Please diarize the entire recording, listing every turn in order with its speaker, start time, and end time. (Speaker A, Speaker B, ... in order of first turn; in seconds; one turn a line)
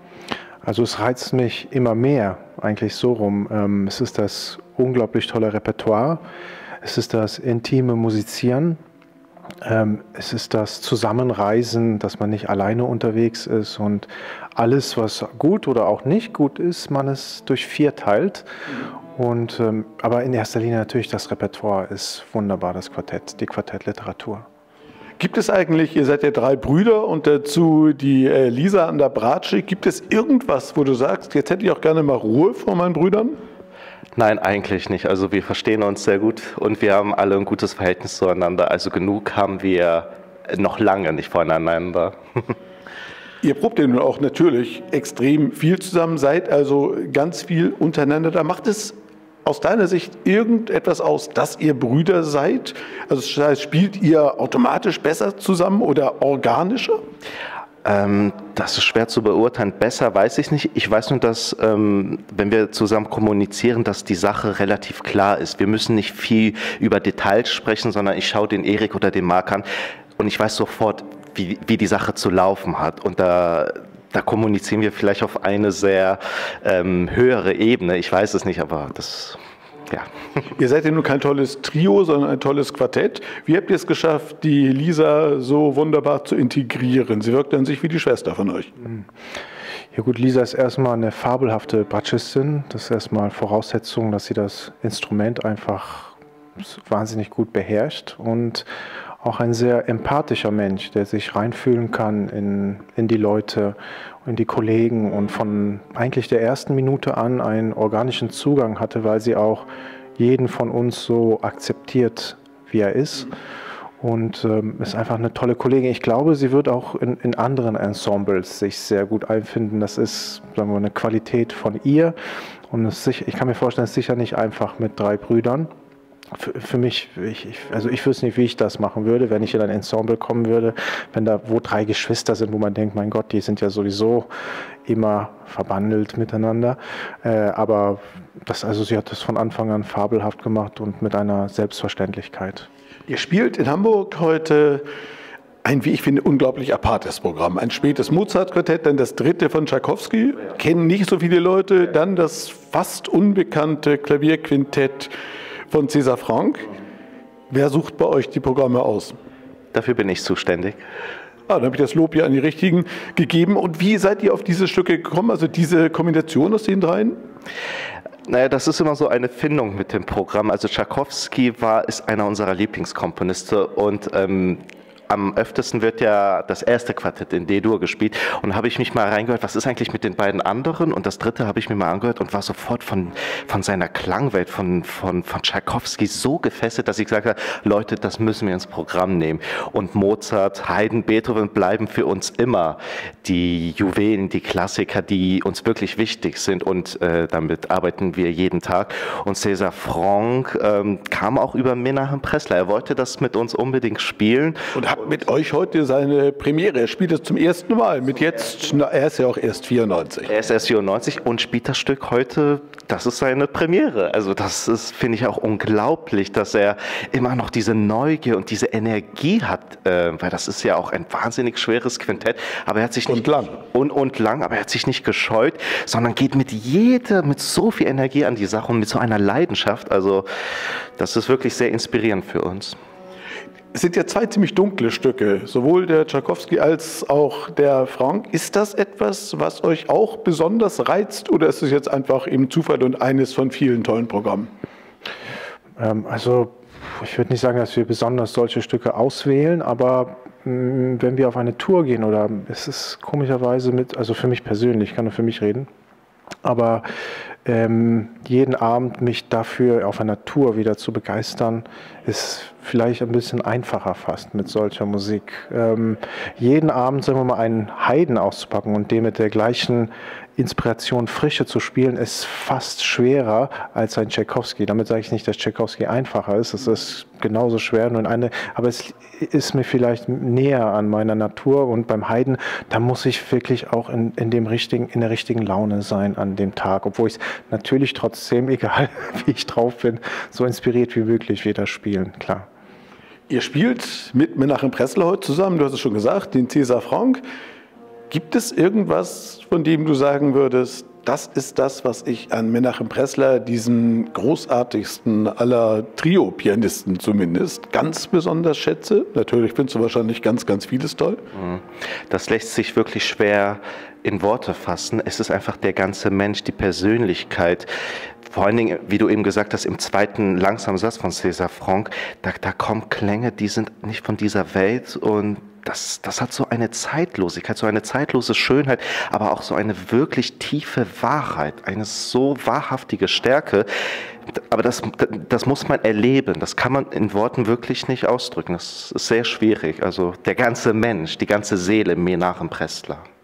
Speaker A: 0.6-6.2
Speaker A: 6.8-8.8
Speaker A: 9.6-18.5
Speaker A: 19.1-24.5
Speaker B: 25.2-33.4
Speaker C: 34.2-42.1
Speaker B: 43.4-57.0
Speaker C: 57.8-69.7
Speaker C: 70.2-79.4
Speaker B: 80.6-88.7
Speaker A: 88.8-89.1
Speaker A: 89.9-98.7
Speaker A: 99.2-109.7
Speaker A: 110.2-113.3
Speaker A: 114.0-122.2
Speaker A: 122.7-125.7
Speaker A: 126.3-134.3
Speaker A: 134.8-142.7
Speaker B: 143.1-144.8
Speaker B: 145.6-155.1
Speaker B: 155.7-156.7
Speaker B: 157.5-159.2
Speaker C: 159.7-160.8
Speaker B: 161.5-167.2
Speaker C: 168.3-204.6
Speaker B: 204.8-210.3
Speaker C: 210.3-230.3
Speaker B: 223.1-223.6
Speaker C: 231.0-232.8
Speaker B: 233.7-244.5
Speaker A: 245.8-255.7
Speaker A: 256.4-256.9
Speaker A: 257.4-292.5
Speaker B: 293.3-297.2
Speaker B: 298.1-311.2
Speaker C: 311.3-317.7
Speaker C: 318.3-333.7
Speaker C: 334.5-343.1